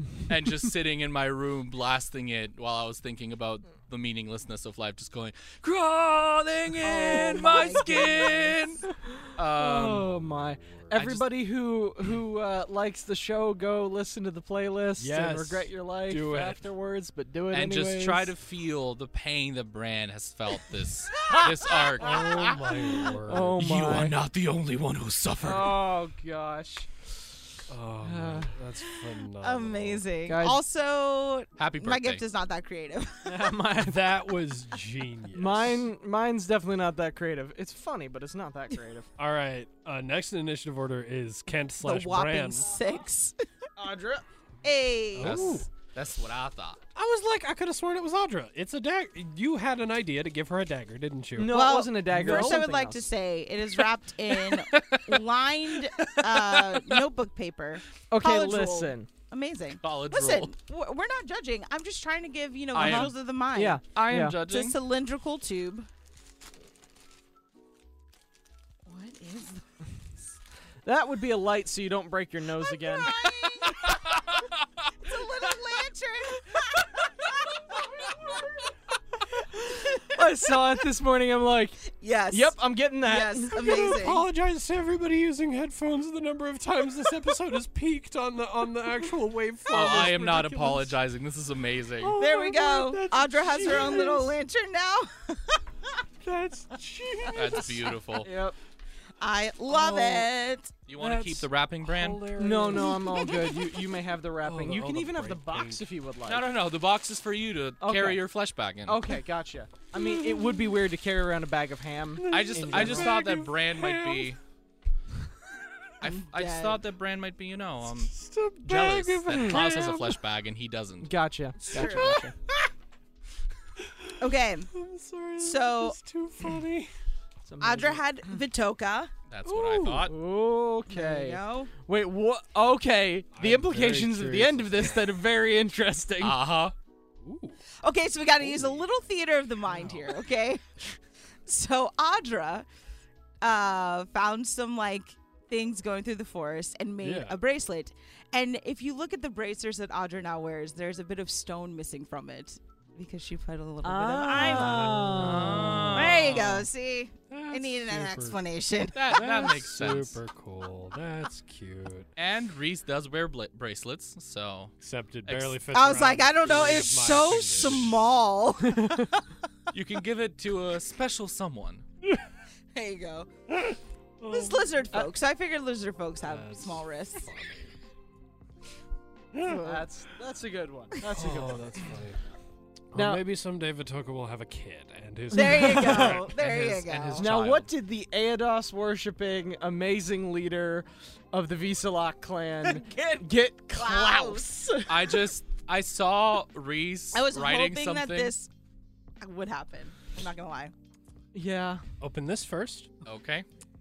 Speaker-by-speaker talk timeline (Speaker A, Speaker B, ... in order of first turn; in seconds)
Speaker A: 0.3-8.8, 9.4-10.1, 10.9-11.3, 17.5-25.9, 31.6-32.2, 45.2-46.8, 54.7-55.2, 56.0-57.0, 59.8-60.5, 62.7-63.1, 63.9-64.8, 73.6-74.5, 89.7-92.2, 97.3-98.3, 100.9-102.3, 106.2-109.1, 112.3-114.4, 116.0-118.1, 118.6-121.1, 129.3-130.1, 136.2-136.7, 155.1-156.7, 158.9-160.2, 162.2-164.7, 165.2-165.6, 169.7-171.8, 186.0-187.7, 194.9-198.3, 203.1-203.4
Speaker B: 6.8-8.7, 29.4-33.5, 41.8-43.4, 44.6-45.6, 51.5-63.8, 64.4-65.9, 68.9-69.6, 72.8-74.0, 75.0-78.4, 81.9-84.3, 92.2-95.7, 99.2-100.7, 103.0-103.3, 116.0-116.8, 121.7-122.3, 124.2-124.7, 125.4-126.0, 127.6-129.1, 130.9-131.7, 137.8-140.6, 141.5-142.7, 143.4-155.2, 155.9-159.2, 165.7-169.3, 172.7-173.3, 174.3-177.3, 179.4-179.8, 185.3-187.3, 192.6-194.8, 197.1-198.5, 199.2-200.7
Speaker C: 7.1-7.8, 9.1-18.3, 21.2-21.6, 22.2-24.1, 25.4-27.1, 28.0-28.5, 30.3-30.6, 33.2-34.2, 35.3-39.1, 43.8-44.2, 51.4-53.1, 58.1-59.1, 62.8-64.4, 70.8-73.1, 79.8-83.6, 98.2-98.6, 99.8-100.2, 102.4-106.5, 107.8-108.2, 108.9-113.2, 119.3-119.9, 121.0-122.3, 127.5-128.0, 130.0-136.5, 153.8-155.9, 179.6-181.8, 182.9-183.2, 185.3-186.1, 187.2-195.2, 201.3-201.8
Speaker D: 10.0-10.9, 15.0-16.6, 22.0-23.6, 27.7-30.1, 33.8-35.8, 39.2-42.7, 45.1-45.7, 47.0-52.6, 83.5-91.0, 92.0-94.3, 96.2-97.9, 101.0-103.6, 104.4-105.8, 109.9-110.8, 112.2-114.4, 117.9-120.2, 121.7-122.3, 123.8-126.9, 129.4-130.1, 133.3-135.2, 137.2-137.6, 138.4-138.9, 139.7-140.2, 147.0-147.4, 154.4-156.5, 157.3-158.4, 159.1-162.1, 164.8-168.0, 173.5-174.8, 176.2-177.8, 179.3-179.6, 181.1-182.2, 182.9-186.3, 202.0-202.9